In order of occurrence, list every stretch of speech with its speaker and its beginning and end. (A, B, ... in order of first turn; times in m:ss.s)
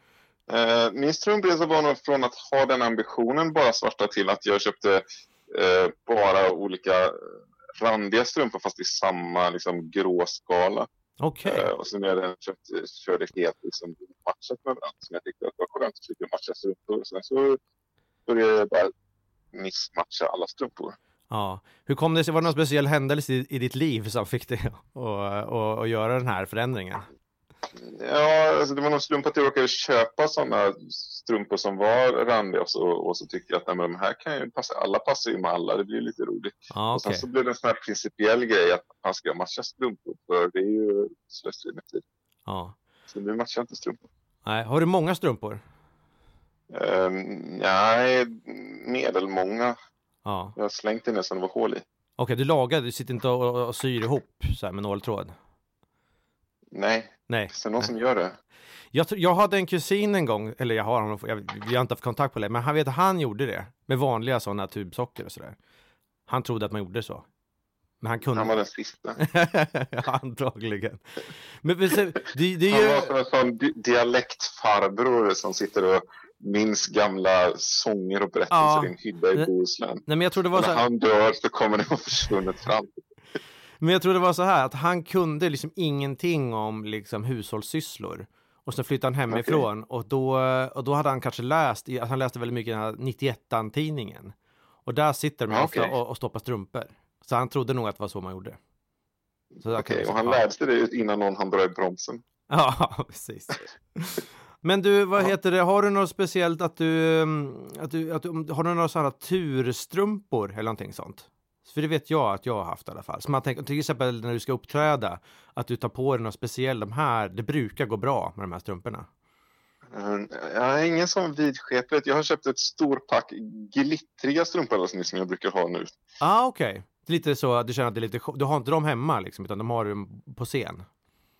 0:00.5-0:10.9 A
0:11.2-0:11.7 B
0:11.4-0:17.6 A
0:18.3-0:18.9 A
0:19.5-0:21.0 A
0:21.3-0:27.1 B
0:27.8-0:42.0 A
0:36.7-0:37.2 B
0:42.4-0:42.7 B
0:43.1-0:44.0 A
0:44.4-0:45.6 B
0:46.7-0:49.8 A
0:50.2-0:50.6 B
0:50.6-0:51.8 A
0:52.2-0:55.3 B
0:56.7-0:58.3 A
0:57.3-0:57.9 B
0:58.9-1:05.6 B
1:06.3-1:07.2 B
1:08.0-1:08.5 B
1:08.3-1:09.2 A
1:09.2-1:13.1 B
1:12.7-1:23.0 A
1:18.5-1:19.5 B
1:20.1-1:20.8 B
1:23.8-1:38.6 B
1:29.3-1:29.6 A
1:35.5-1:35.9 A
1:39.6-1:42.2 A
1:39.6-1:40.4 B
1:42.5-1:59.1 B
1:59.9-2:05.9 A
2:06.2-2:10.8 B